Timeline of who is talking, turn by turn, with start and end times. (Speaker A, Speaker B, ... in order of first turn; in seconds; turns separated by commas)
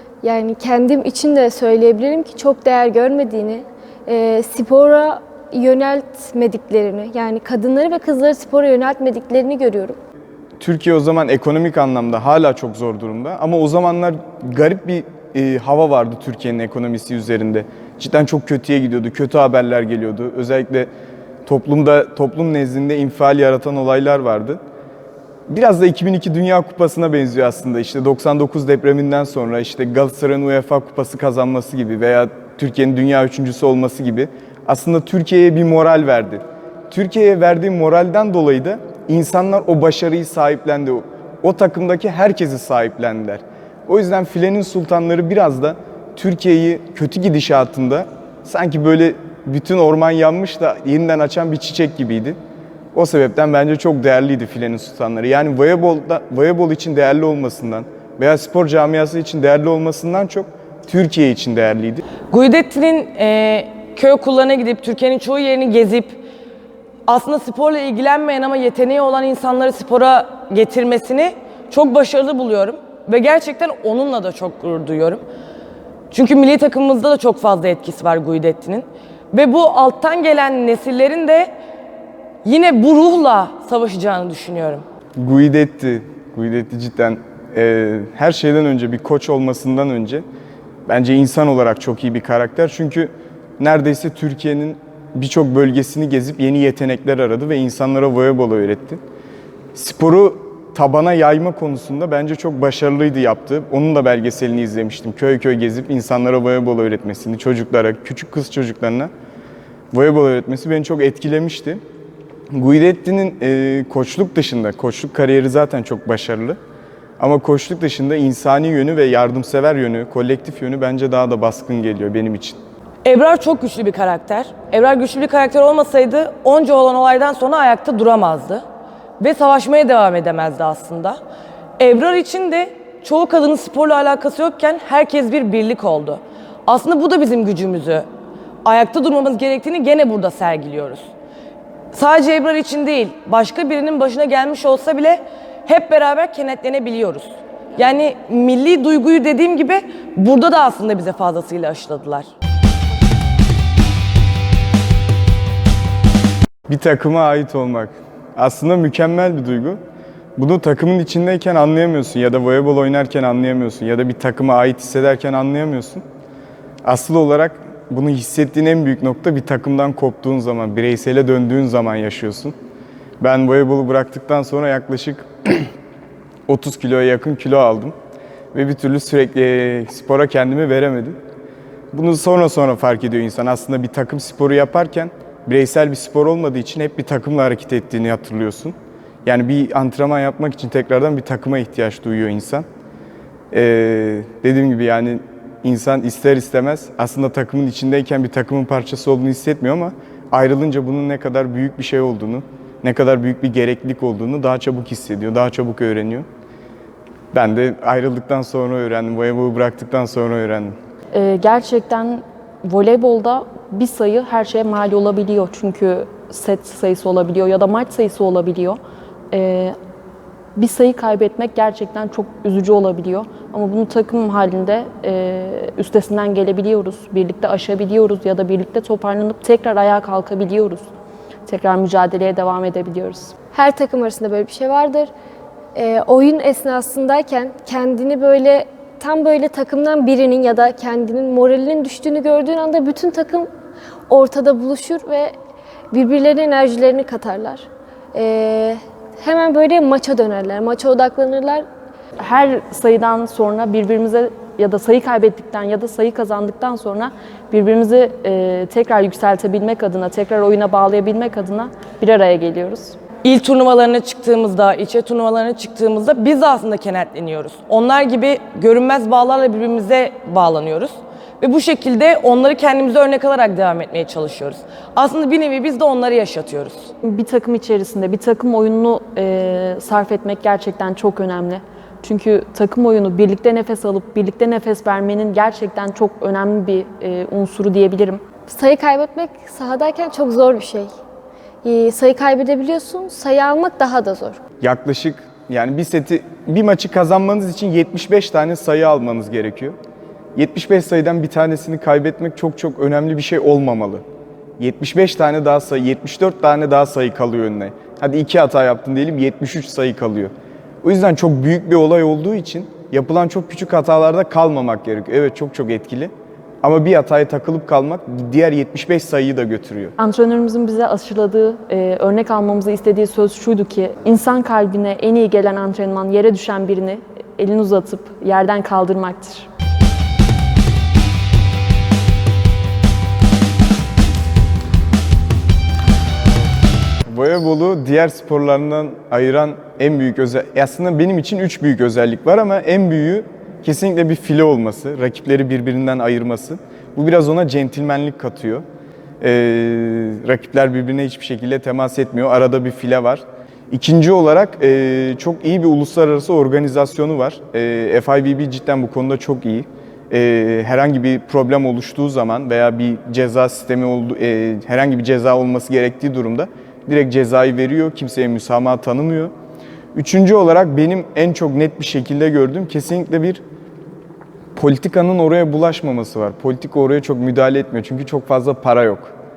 Speaker A: 0.2-10.0, Speaker B: 10.6-20.9, Speaker B: 21.4-24.6, Speaker B: 25.5-52.4, Speaker B: 52.9-62.0, Speaker C: 62.3-66.2, Speaker C: 67.1-75.2, Speaker C: 76.1-81.5, Speaker C: 82.4-84.8, Speaker B: 85.2-90.2, Speaker B: 90.9-99.0, Speaker B: 99.7-109.1, Speaker B: 109.9-111.8, Speaker B: 112.5-116.6, Speaker B: 117.2-122.6, Speaker C: 123.0-128.6, Speaker C: 129.2-131.2, Speaker C: 131.8-138.1, Speaker C: 138.6-141.1, Speaker C: 141.9-152.3, Speaker B: 156.7-159.8, Speaker B: 160.3-166.0, Speaker B: 166.8-172.5, Speaker B: 173.2-175.7, Speaker B: 176.5-177.9, Speaker B: 178.5-181.2, Speaker B: 181.9-192.7, Speaker B: 193.5-206.2, Speaker B: 207.3-210.7, Speaker D: 211.1-218.8, Speaker D: 219.3-219.7, Speaker D: 220.6-230.9, Speaker D: 231.4-233.3, Speaker A: 233.5-235.1, Speaker A: 235.7-243.5, Speaker A: 244.1-245.3, Speaker A: 245.9-251.6, Speaker D: 252.2-263.0, Speaker C: 263.2-276.9, Speaker D: 277.0-288.2, Speaker A: 288.5-290.9, Speaker A: 291.6-294.4, Speaker B: 294.6-299.7, Speaker B: 300.3-304.0, Speaker B: 304.6-310.3, Speaker B: 310.8-319.9, Speaker D: 320.0-329.5, Speaker B: 337.1-348.6, Speaker B: 349.2-369.3, Speaker B: 369.9-373.4, Speaker B: 374.6-379.1